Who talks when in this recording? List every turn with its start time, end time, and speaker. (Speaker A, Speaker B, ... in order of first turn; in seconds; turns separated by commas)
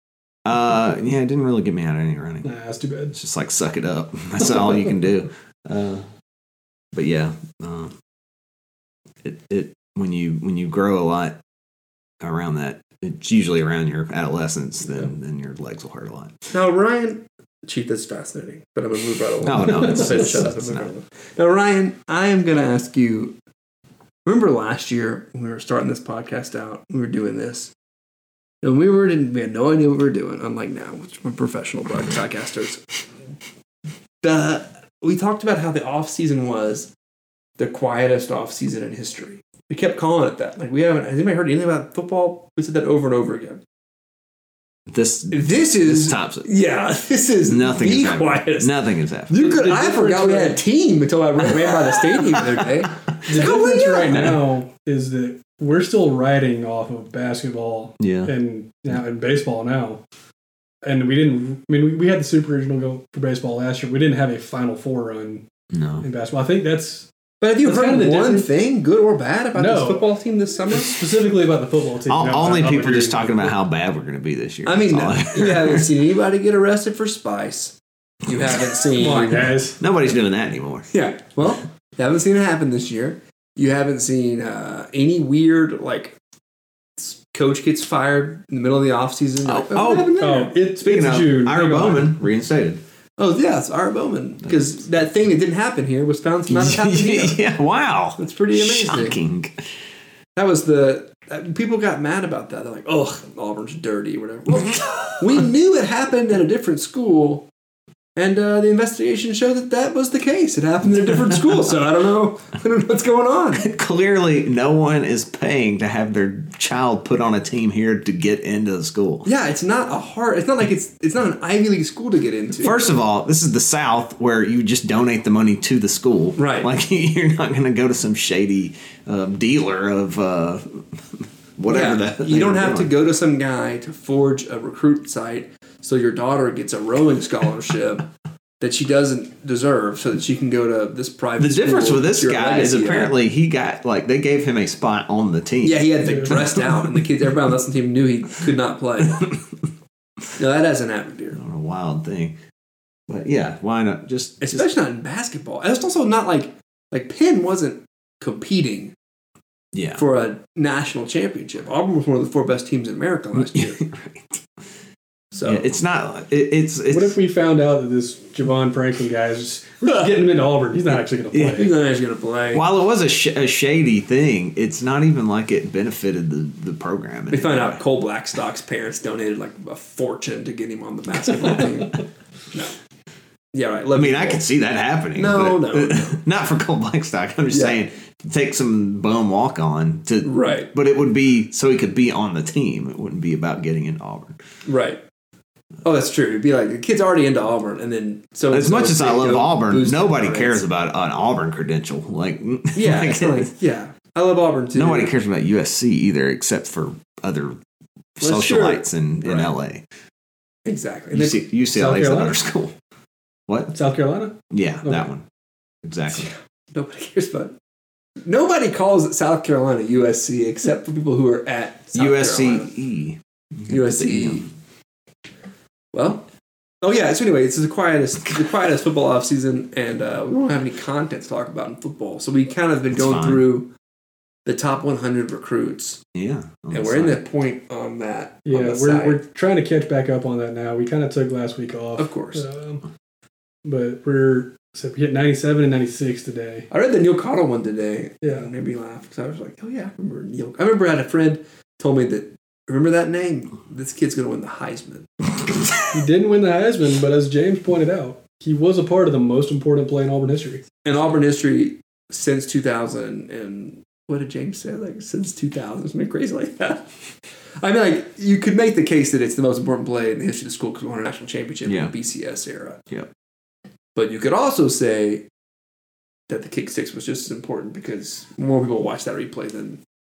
Speaker A: 0.5-2.5, Speaker B: 2.4-3.1, Speaker A: 3.1-6.1, Speaker A: 6.9-8.0, Speaker A: 9.2-11.4, Speaker A: 12.2-16.5, Speaker C: 16.5-23.4, Speaker A: 19.4-20.9, Speaker C: 24.2-27.7, Speaker C: 28.6-33.0, Speaker C: 34.2-36.9, Speaker C: 37.6-43.6, Speaker A: 44.9-46.5, Speaker C: 45.3-48.7, Speaker A: 47.4-49.4, Speaker C: 49.3-54.4, Speaker B: 49.3-50.6, Speaker A: 51.4-54.4, Speaker B: 53.3-60.0, Speaker A: 58.0-58.3, Speaker B: 60.8-65.5, Speaker A: 65.7-66.1, Speaker B: 66.0-67.1, Speaker C: 67.4-71.0, Speaker B: 67.6-68.5, Speaker B: 69.6-70.2, Speaker B: 70.7-73.5, Speaker A: 72.1-75.9, Speaker C: 74.7-79.6, Speaker A: 78.3-79.2, Speaker B: 79.0-79.8, Speaker A: 79.8-80.9, Speaker C: 80.9-86.2, Speaker C: 87.0-90.5, Speaker A: 89.4-92.8, Speaker B: 90.2-92.2, Speaker C: 93.2-97.4, Speaker A: 96.5-99.7, Speaker C: 98.2-99.2, Speaker C: 100.4-107.5, Speaker A: 104.5-105.4, Speaker C: 108.2-113.6, Speaker A: 111.3-111.6, Speaker A: 113.6-119.3, Speaker C: 119.2-122.8, Speaker A: 122.6-132.9, Speaker C: 126.4-126.7, Speaker C: 131.7-138.1, Speaker C: 138.6-143.1, Speaker A: 141.4-147.1, Speaker C: 145.6-149.3, Speaker C: 150.4-151.4, Speaker A: 151.3-152.4, Speaker A: 153.1-154.7, Speaker C: 154.4-158.9, Speaker A: 159.7-160.0, Speaker C: 160.0-163.8, Speaker A: 163.3-164.4, Speaker C: 165.3-165.7, Speaker A: 165.4-167.2, Speaker B: 166.9-171.7, Speaker A: 171.3-171.7, Speaker C: 171.6-172.6, Speaker A: 172.5-177.8, Speaker C: 177.3-182.8, Speaker C: 183.5-184.4, Speaker A: 183.9-194.4, Speaker C: 185.2-186.2, Speaker C: 187.5-187.8, Speaker C: 190.2-190.7, Speaker C: 194.7-195.0, Speaker C: 195.8-200.6, Speaker A: 198.5-203.5, Speaker C: 202.8-205.1, Speaker A: 204.7-207.6, Speaker A: 208.2-209.8, Speaker C: 208.2-209.5, Speaker C: 210.7-211.5, Speaker A: 211.1-212.8, Speaker B: 211.7-212.4, Speaker A: 213.5-213.8, Speaker B: 213.7-215.1, Speaker A: 214.5-215.2, Speaker A: 215.8-216.3, Speaker C: 216.1-217.6, Speaker C: 218.2-222.7, Speaker A: 221.9-224.5, Speaker C: 223.7-224.5, Speaker C: 225.9-226.2, Speaker C: 226.8-233.7, Speaker A: 232.9-233.4, Speaker C: 234.4-236.0, Speaker A: 236.1-237.2, Speaker C: 236.7-239.2, Speaker B: 238.4-242.8, Speaker C: 242.0-242.4, Speaker B: 243.7-246.7, Speaker C: 246.7-255.1, Speaker B: 248.2-248.5, Speaker B: 255.9-260.6, Speaker C: 260.8-272.8, Speaker A: 271.6-271.9, Speaker C: 273.9-275.3, Speaker C: 276.3-279.8